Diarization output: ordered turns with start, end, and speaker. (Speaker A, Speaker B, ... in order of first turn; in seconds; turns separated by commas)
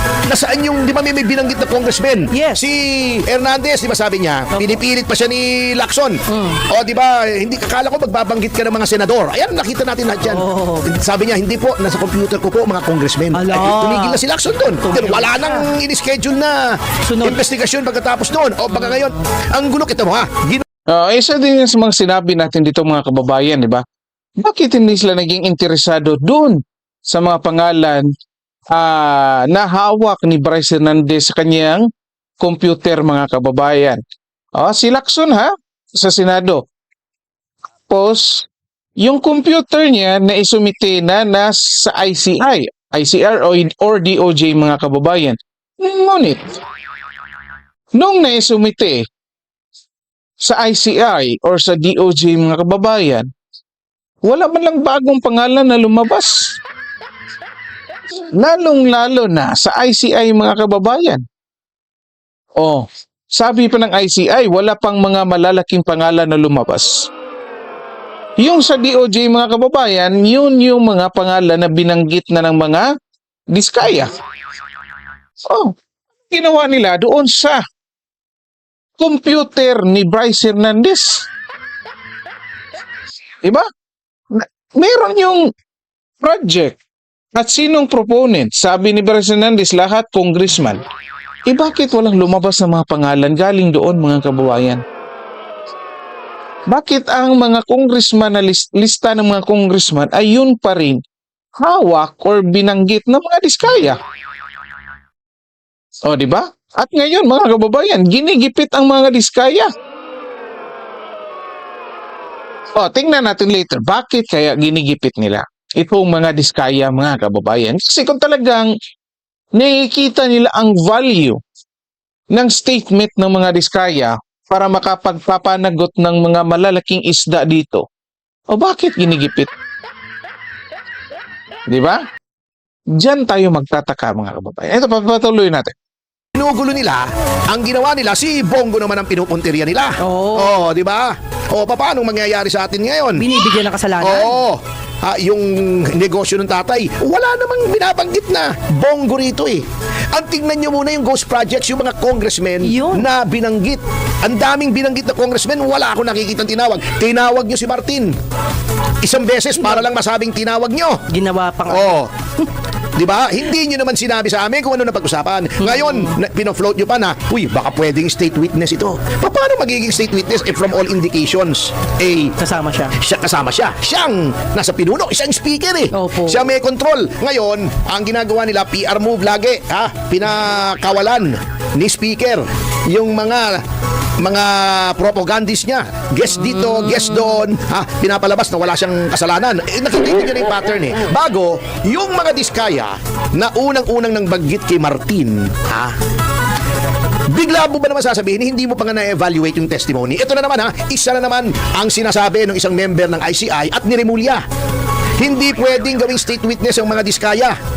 Speaker A: 0.3-20.6, Speaker B: 2.3-2.6, Speaker B: 4.5-4.8, Speaker B: 6.3-6.6, Speaker B: 10.2-10.9, Speaker B: 13.3-14.2, Speaker B: 14.8-15.7, Speaker B: 17.1-17.4, Speaker B: 18.7-19.1, Speaker C: 20.9-23.8, Speaker C: 24.4-28.1, Speaker C: 28.7-31.9, Speaker C: 32.4-34.0, Speaker C: 34.6-36.6, Speaker C: 37.9-38.5, Speaker C: 39.0-46.4, Speaker C: 47.9-49.0, Speaker C: 50.4-53.3, Speaker C: 54.2-56.6, Speaker C: 58.3-61.2, Speaker C: 62.6-67.1, Speaker C: 68.4-72.9, Speaker C: 73.5-74.1, Speaker C: 75.5-75.7, Speaker C: 76.3-77.6, Speaker C: 79.0-81.2, Speaker C: 84.3-85.5, Speaker C: 86.2-86.8, Speaker C: 87.3-90.8, Speaker C: 91.5-94.8, Speaker C: 96.7-101.0, Speaker C: 101.6-104.0, Speaker C: 106.0-109.7, Speaker C: 112.7-118.7, Speaker C: 119.5-121.4, Speaker C: 122.3-127.8, Speaker C: 128.5-129.5, Speaker C: 131.7-132.0, Speaker C: 132.9-135.7, Speaker A: 136.3-158.1, Speaker B: 140.0-140.7, Speaker B: 143.2-144.3, Speaker B: 152.6-153.0, Speaker A: 159.0-161.0, Speaker B: 161.1-162.0, Speaker A: 161.7-162.1, Speaker A: 163.0-172.3, Speaker B: 165.6-166.2, Speaker B: 172.4-172.9, Speaker A: 172.9-183.6, Speaker B: 175.9-176.5, Speaker A: 184.2-196.0, Speaker B: 186.3-187.4, Speaker A: 197.3-204.4, Speaker A: 205.2-207.6